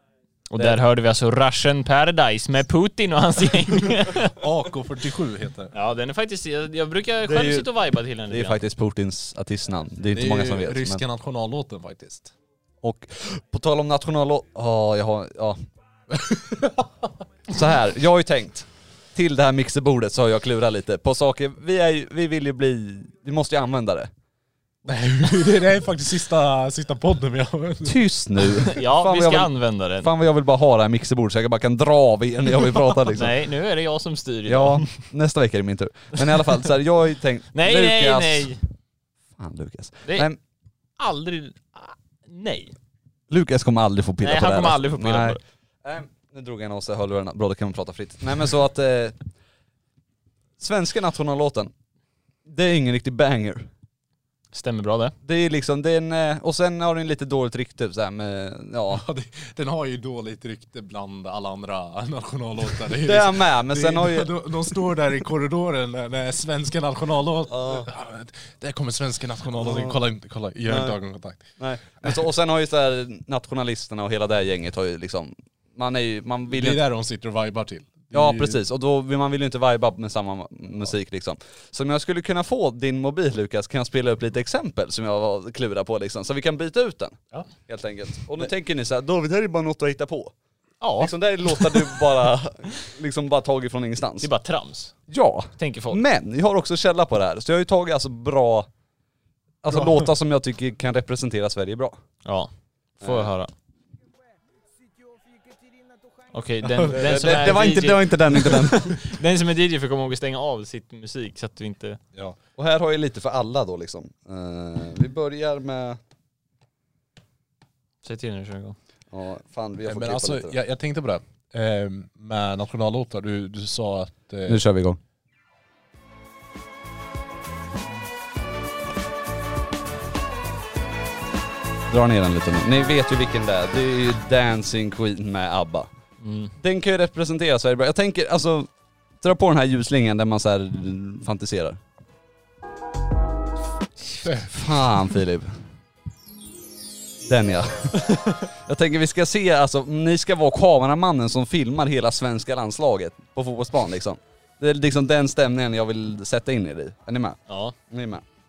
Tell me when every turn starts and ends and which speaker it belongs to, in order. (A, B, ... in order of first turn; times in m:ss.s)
0:00.5-0:04.4 A
0:04.2-0:05.7 B
0:05.7-0:08.6 A
0:07.2-0:07.7 C
0:08.3-0:11.0 C
0:10.1-0:12.3 B
0:12.8-0:15.6 C
0:16.2-0:16.8 B
0:17.5-0:24.1 C
0:24.8-0:28.0 B
0:27.8-0:33.4 C
0:28.7-0:30.1 A
0:33.1-0:34.9 A
0:34.5-0:38.6 C
0:37.5-0:38.6 A
0:39.4-0:40.4 C
0:41.0-0:42.8 A
0:43.3-0:49.2 C
0:44.2-0:45.4 A
0:50.6-0:51.7 C
0:52.5-0:53.7 C
0:54.5-0:55.2 A
0:55.2-0:59.0 C
0:58.9-1:11.4 B
1:02.9-1:04.3 C
1:07.5-1:07.9 C
1:09.6-1:10.0 C
1:10.7-1:11.0 C
1:11.6-1:16.8 C
1:16.5-1:18.6 B
1:18.1-1:30.3 C
1:30.8-1:31.1 A
1:31.0-1:34.3 C
1:34.2-1:35.0 A
1:35.1-1:38.7 C
1:35.6-1:36.0 A
1:39.6-1:42.0 C
1:39.7-1:40.1 B
1:42.2-1:43.5 A
1:43.0-1:43.3 C
1:46.3-1:52.0 A
1:46.8-1:47.3 B
1:46.9-1:49.0 C
1:52.6-1:56.0 C
1:58.0-1:58.8 A
1:59.1-2:00.6 C
1:59.8-2:04.6 B
2:04.5-2:05.0 C
2:11.9-2:15.9 C
2:16.2-2:16.5 A
2:16.6-2:18.7 C
2:19.2-2:21.8 C
2:24.3-2:25.6 C
2:27.3-2:38.2 C
2:37.5-2:37.8 A